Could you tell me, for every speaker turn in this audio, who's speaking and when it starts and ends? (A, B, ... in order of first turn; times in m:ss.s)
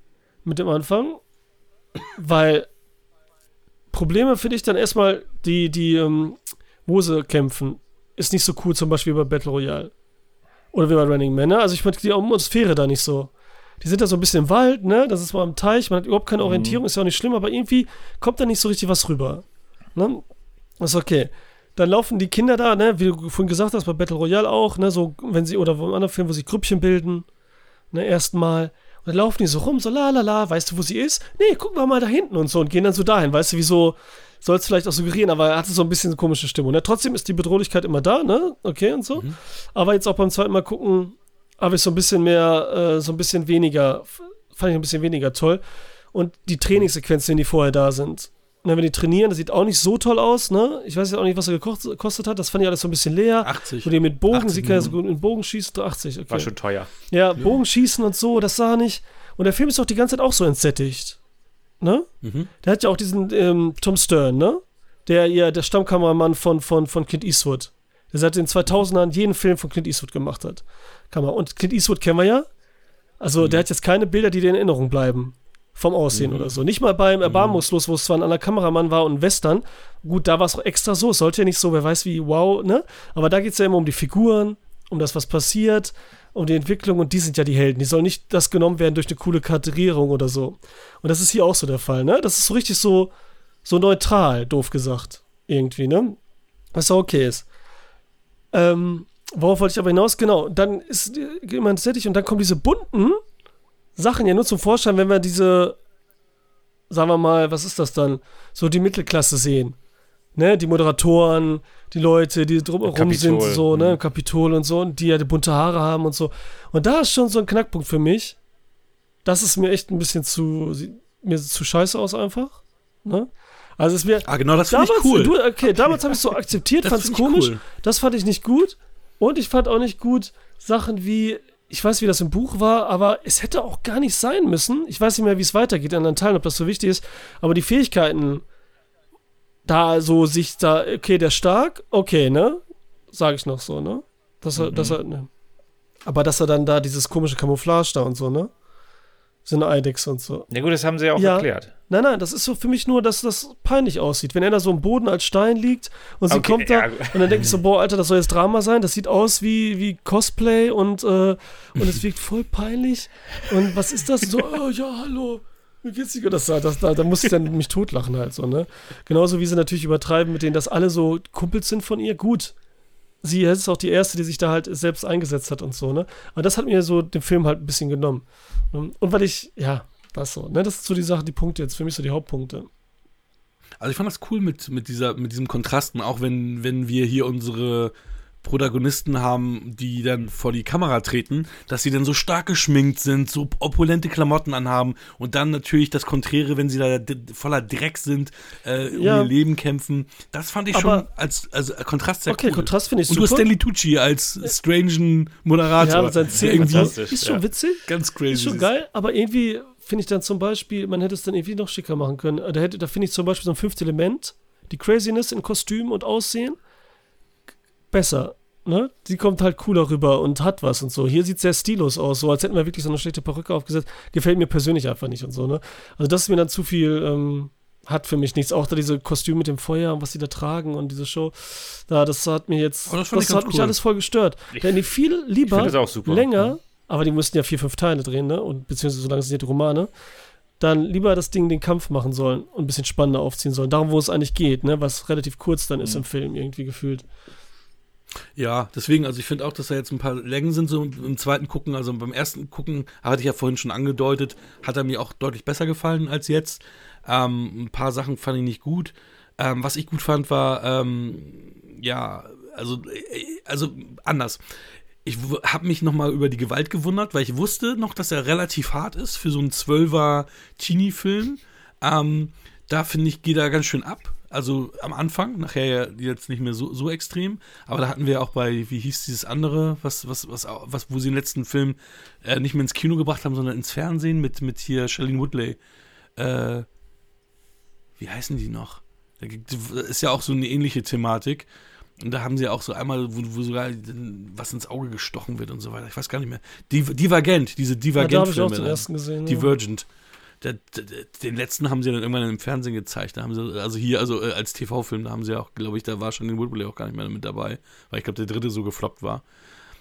0:00.4-0:01.2 A
0:02.1-0:02.7 A
0:03.9-0:09.9 A
0:10.7-0:19.4 A
0:16.4-0:16.8 B
0:20.0-0:20.2 A
0:20.8-0:27.2 A
0:27.9-0:45.6 A
0:46.1-1:01.2 A
0:53.4-0:55.0 C
0:56.3-0:56.9 B
1:01.8-1:02.1 A
1:02.2-1:02.5 C
1:02.6-1:12.5 A
1:13.2-1:33.1 A
1:16.1-1:16.6 C
1:17.2-1:17.6 C
1:33.6-1:36.2 A
1:36.7-1:37.4 A
1:38.5-1:43.2 A
1:44.0-1:45.8 A
1:46.9-1:49.8 A
1:50.3-1:58.4 A
1:52.8-1:53.9 B
1:59.2-2:18.4 A
2:04.2-2:05.4 C
2:06.8-2:07.6 C
2:19.6-2:25.3 A
2:24.6-2:25.0 B
2:26.0-2:28.5 A
2:29.4-2:30.5 A
2:30.5-2:31.7 B
2:31.2-2:52.5 A
2:36.3-2:37.4 B
2:53.2-3:02.7 A
3:03.8-3:27.0 C
3:18.9-3:19.3 A
3:20.7-3:21.0 A
3:22.3-3:23.5 A
3:25.8-3:36.6 A
3:26.3-3:27.4 B
3:27.8-3:28.7 C
3:37.9-3:59.9 A
3:52.9-3:53.8 C
3:54.5-3:54.8 B
3:55.4-3:56.3 B
4:00.6-4:07.0 A
4:08.4-4:24.4 C
4:25.0-4:45.6 C
4:46.2-4:46.7 C
4:48.0-4:51.5 C
4:52.0-4:59.9 C
4:58.0-4:59.5 A
5:00.4-5:09.2 C